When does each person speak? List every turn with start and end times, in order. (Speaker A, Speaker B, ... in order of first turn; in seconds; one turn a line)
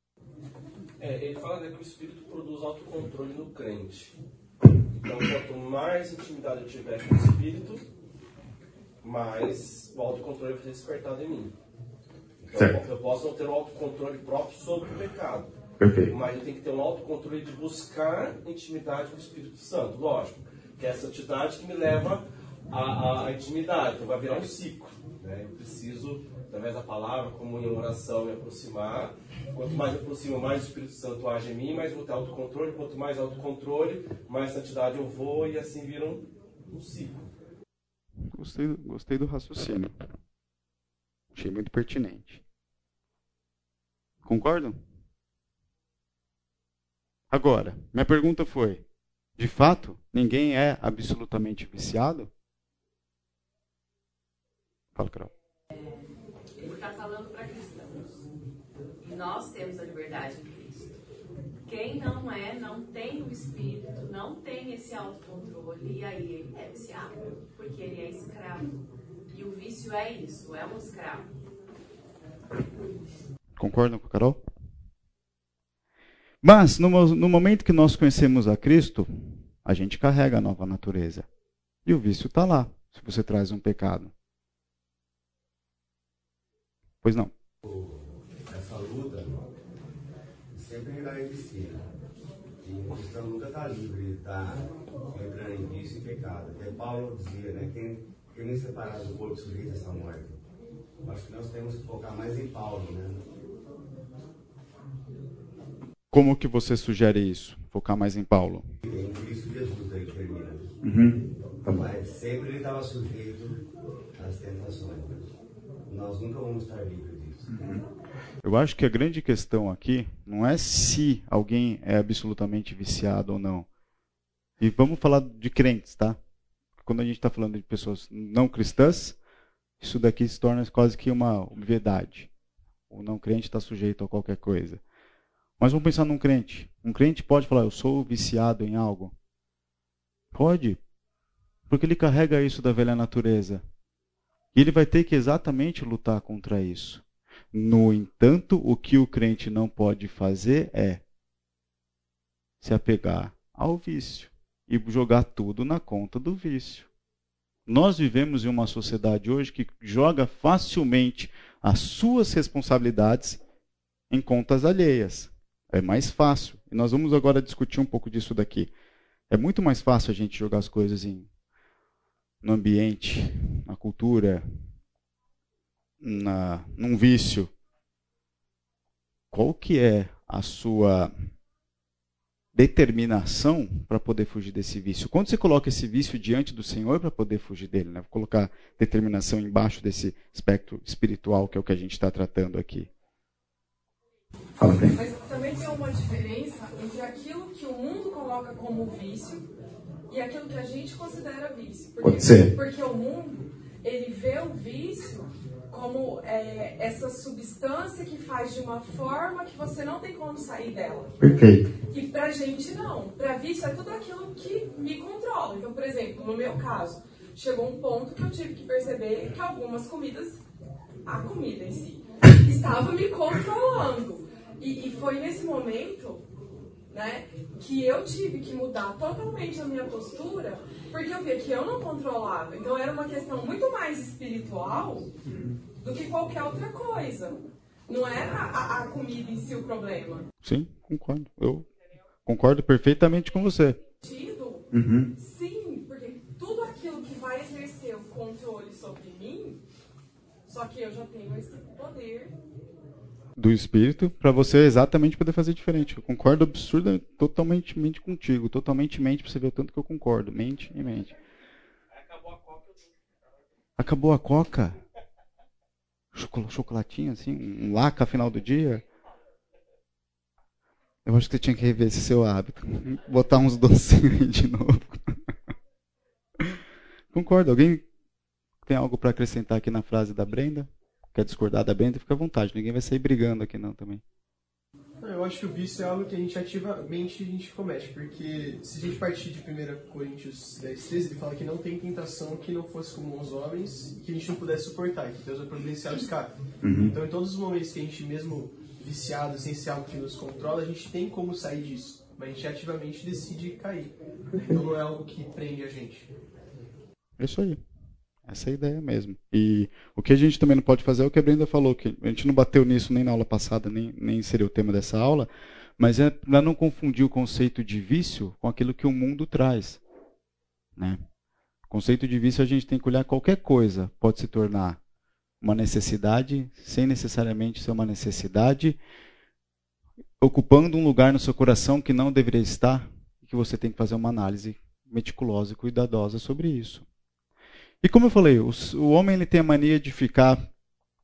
Speaker A: 1.0-4.1
Speaker A: 5.0-7.8
Speaker A: 9.0-11.5
Speaker A: 12.4-15.5
Speaker B: 12.5-12.8
Speaker B: 15.8-16.1
Speaker A: 16.1-37.3
Speaker B: 38.3-39.9
Speaker B: 41.3-42.4
Speaker B: 44.2-44.8
Speaker B: 47.3-48.8
Speaker B: 49.4-52.3
Speaker B: 55.0-55.3
Speaker C: 55.7-56.0
Speaker C: 56.6-58.2
Speaker C: 59.0-61.0
Speaker C: 61.6-68.7
Speaker C: 69.3-71.3
Speaker B: 73.6-74.4
Speaker B: 76.4-79.1
Speaker B: 79.6-81.3
Speaker B: 81.9-84.1
Speaker B: 87.0-87.3
Speaker D: 87.6-89.5
Speaker D: 90.5-91.9
Speaker D: 92.6-100.4
Speaker D: 101.0-103.3
Speaker B: 106.1-108.7
Speaker D: 108.8-110.7
Speaker B: 110.8-111.8
Speaker D: 111.7-115.3
Speaker D: 115.9-117.5
Speaker B: 117.5-117.8
Speaker B: 118.4-123.7
Speaker B: 124.6-126.2
Speaker B: 126.8-129.2
Speaker B: 129.8-132.3
Speaker B: 132.9-134.8
Speaker B: 135.6-139.1
Speaker B: 140.3-140.8
Speaker B: 141.7-143.6
Speaker B: 144.6-151.0
Speaker B: 152.6-156.9
Speaker B: 157.7-163.4
Speaker B: 164.1-168.7
Speaker B: 169.3-171.3
Speaker B: 172.4-174.4
Speaker B: 176.0-177.5
Speaker B: 179.3-181.1
Speaker B: 182.6-192.9
Speaker B: 194.6-194.9
Speaker E: 194.9-199.5
Speaker E: 200.1-211.2
Speaker B: 202.0-202.5
Speaker B: 211.2-211.6
Speaker E: 211.9-220.4
Speaker E: 221.1-226.2
Speaker E: 226.9-235.1
Speaker B: 235.3-235.5
Speaker E: 235.8-240.2
Speaker B: 240.4-241.7
Speaker B: 242.3-243.8
Speaker E: 244.0-244.7
Speaker B: 244.7-245.1
Speaker E: 245.2-249.6
Speaker E: 250.5-252.3
Speaker B: 253.4-261.1
Speaker B: 263.8-264.8
Speaker B: 266.1-268.8
Speaker B: 271.1-275.1
Speaker B: 277.1-277.8
Speaker B: 278.7-284.0
Speaker F: 285.0-296.3
Speaker B: 296.6-296.9
Speaker F: 296.9-306.1
Speaker B: 307.2-307.6
Speaker B: 308.3-319.8
Speaker B: 321.7-324.8
Speaker B: 325.4-328.8
Speaker B: 330.2-336.9
Speaker B: 337.8-340.4